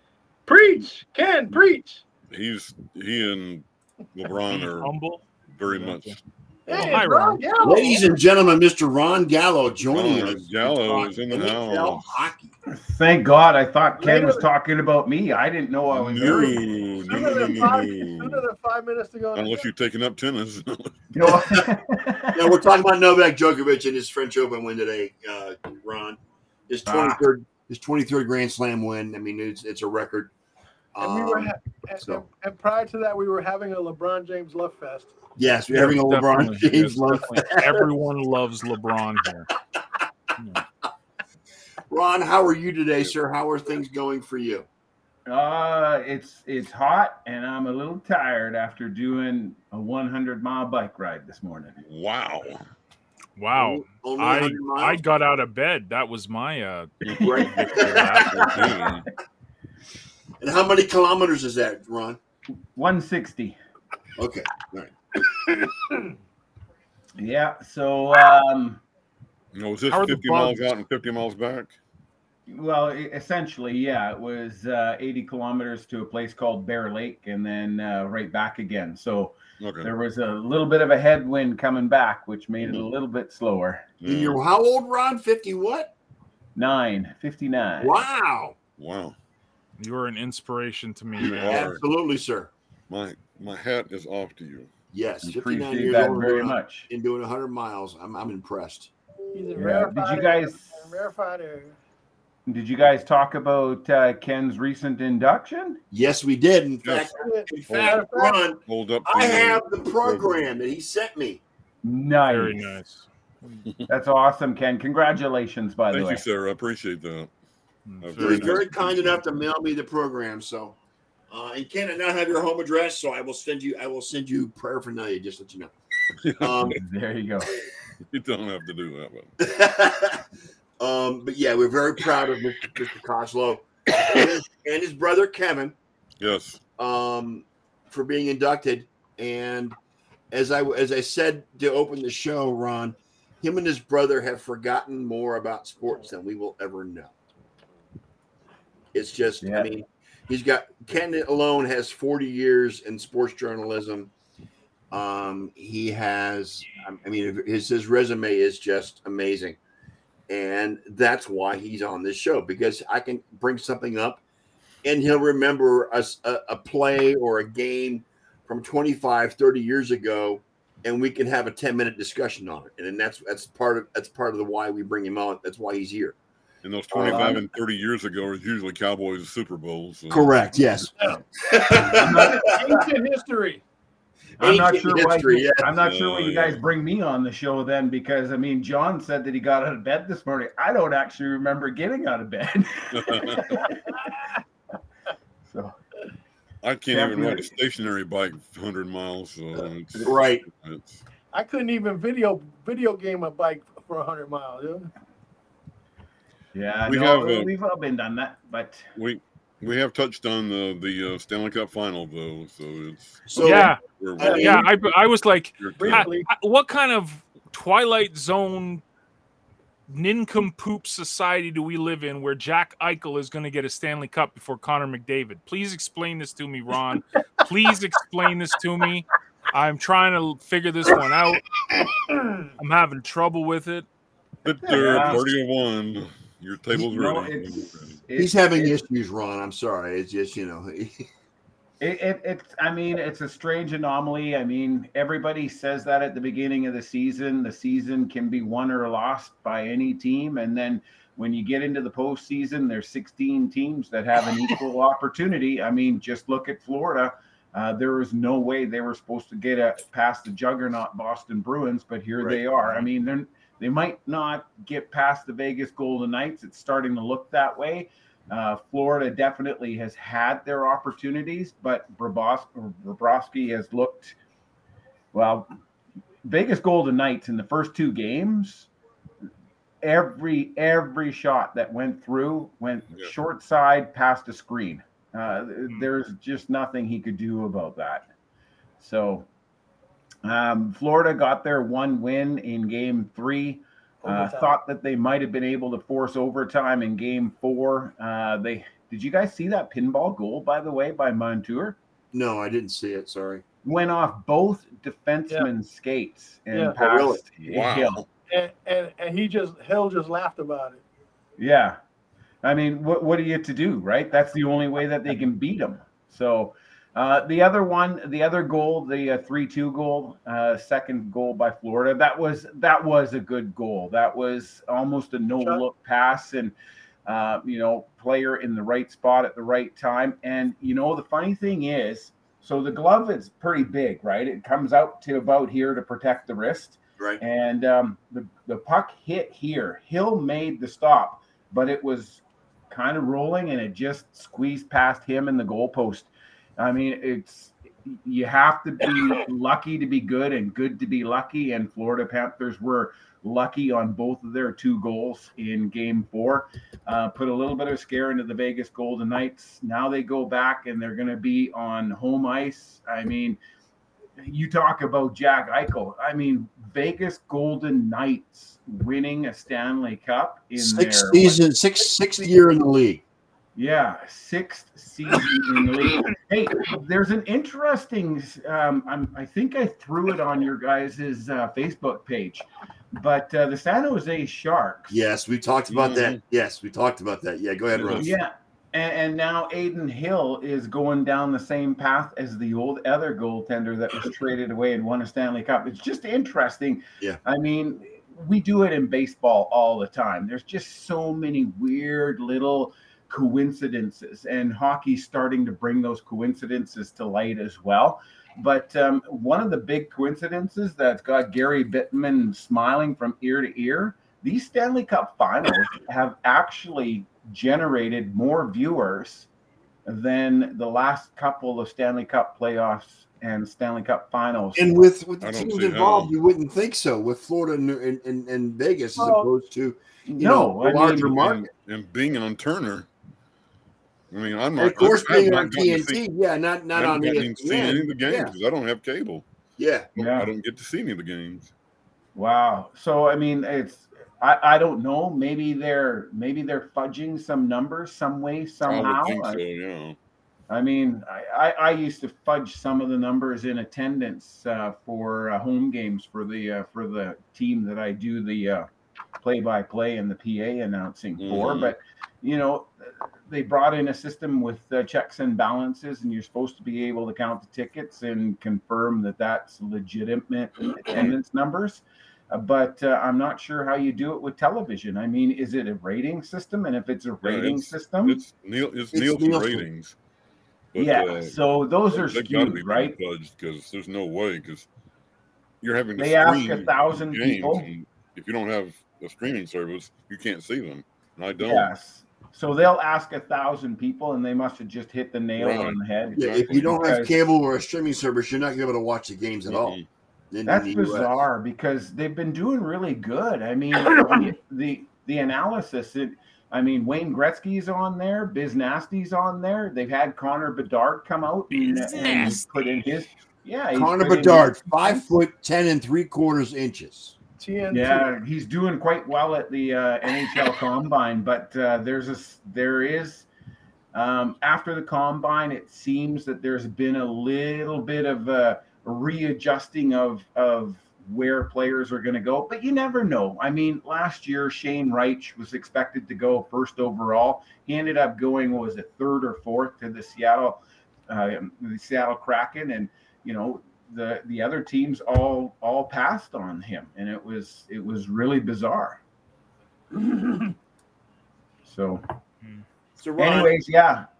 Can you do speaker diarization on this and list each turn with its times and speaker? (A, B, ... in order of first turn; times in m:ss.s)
0:00.5-0:02.0 A
0:02.3-0:04.9 B
0:04.5-0:06.2 C
0:05.5-0:06.2 B
0:06.7-0:08.0 A
0:06.7-0:07.5 C
0:07.6-0:12.5 D
0:09.9-0:12.2 B
0:12.7-0:16.8 E
0:14.0-0:14.5 A
0:15.9-0:18.4 B
0:16.3-0:19.7 A
0:19.3-0:21.0 B
0:21.1-0:22.6 E
0:21.2-0:21.6 D
0:22.3-0:30.3 D
0:26.8-0:27.2 E
0:30.9-0:32.2 D
0:31.0-0:35.1 A
0:35.4-0:37.8 D
0:35.7-0:39.5 C
0:41.9-0:44.7 D
0:45.2-0:51.8 E
0:51.8-0:52.6 B
0:53.4-0:58.6 C
0:53.5-0:55.0 D
0:57.1-0:58.8 D
0:57.1-0:59.1 B
0:57.1-0:57.5 E
1:00.4-1:02.2 D
1:02.7-1:03.6 E
1:04.2-1:04.9 D
1:07.2-1:08.8 E
1:09.5-1:11.8 B
1:09.9-1:10.6 C
1:12.5-1:23.9 E
1:19.6-1:19.9 B
1:24.0-1:24.4 B
1:24.0-1:25.9 D
1:26.6-1:28.0 E
1:27.8-1:28.6 D
1:28.8-1:29.2 B
1:29.8-1:31.7 C
1:31.2-1:32.5 D
1:31.3-1:31.8 B
1:32.9-1:34.7 B
1:34.9-1:38.9 D
1:35.2-1:36.9 E
1:39.3-1:41.8 A
1:39.5-1:40.7 E
1:42.5-1:45.8 E
1:45.9-1:51.4 D
1:46.8-1:47.1 B
1:47.2-1:48.4 A
1:47.6-1:48.0 B
1:48.6-1:50.3 B
1:51.8-1:52.8 E
1:52.3-1:53.6 C
1:53.9-1:56.2 E
1:55.9-1:57.3 B
1:57.8-1:58.7 C
1:58.0-1:59.0 B
1:58.2-2:00.8 D
2:01.3-2:05.7 D
2:06.2-2:06.8 B
2:06.4-2:06.8 D
2:06.6-2:07.5 E
2:08.1-2:09.3 B
2:09.4-2:10.2 D
2:10.8-2:15.8 D
2:16.2-2:16.6 B
2:16.8-2:19.8 D
2:20.3-2:27.1 D
2:28.9-2:34.1 D
2:29.4-2:29.7 E
2:34.9-2:39.6 D
2:40.3-2:44.2 D
2:44.8-2:56.2 D
2:56.6-3:00.8 B
2:56.9-2:57.4 D
2:57.0-2:57.4 E
3:00.1-3:02.8 D
3:01.9-3:02.6 E
3:02.1-3:03.6 A
3:04.4-3:14.1 E
3:04.4-3:05.7 D
3:05.8-3:06.6 B
3:12.9-3:13.6 B
3:15.4-3:15.7 E
3:16.6-3:21.0 B
3:16.9-3:17.5 E
3:20.0-3:20.4 D
3:21.3-3:24.9 A
3:26.5-3:28.9 E
3:26.8-3:27.5 B
3:29.0-3:34.8 B
3:33.3-3:34.7 D
3:33.4-3:38.8 C
3:34.2-3:34.5 A
3:35.6-3:36.1 B
3:35.8-3:36.3 A
3:39.9-3:51.4 C
3:52.6-3:53.8 C
3:54.4-3:58.0 B
3:54.6-3:55.2 E
3:56.7-3:58.8 E
3:58.2-4:01.1 D
4:01.8-4:34.1 E
4:35.1-4:35.5 E
4:36.2-4:38.7 E
4:39.8-4:48.1 E
4:48.8-4:49.3 E
4:50.2-5:01.8 E
4:54.0-4:54.5 A
5:02.1-5:03.4 D
5:03.6-5:08.0 E
5:06.8-5:07.2 D
5:07.4-5:08.0 B
5:08.3-5:10.8 A
5:11.4-5:11.8 E
5:12.4-5:26.5 E
5:27.0-6:03.4 E
6:04.2-6:11.4 E
6:10.6-6:13.0 D
6:13.6-6:25.0 E
6:24.9-6:28.1 D
6:25.7-6:26.2 B
6:27.7-6:28.1 B
6:27.9-6:59.3 E
6:59.8-7:04.8 E
7:04.6-7:11.5 D
7:05.2-7:06.1 B
7:09.0-7:09.2 E
7:10.1-7:11.3 E
7:11.2-7:12.9 B
7:14.1-7:16.0 B
7:14.6-7:18.3 D
7:16.7-7:19.2 B
7:19.6-7:19.9 D
7:20.0-7:20.3 E
7:20.0-7:21.5 B
7:22.1-7:29.4 E
7:28.6-7:30.0 B
7:30.5-7:38.7 E
7:39.2-7:58.2 E
7:41.2-7:41.7 B
7:57.2-8:00.0 B
7:58.9-7:59.6 D
8:00.7-8:01.4 B
8:00.7-8:02.9 E
8:01.9-8:04.7 B
8:05.6-8:11.7 B
8:06.0-8:07.7 E
8:11.4-8:17.1 E
8:15.4-8:16.8 B
8:16.1-8:19.8 D
8:19.5-8:19.8 B
8:20.3-8:21.1 D
8:20.4-8:35.1 E
8:31.5-8:32.5 C
8:33.7-8:37.2 D
8:37.4-8:38.1 A
8:37.7-8:43.3 E
8:43.9-9:09.0 E
9:09.9-9:10.5 E
9:11.6-9:12.0 E
9:13.0-9:13.6 D
9:13.2-9:14.0 E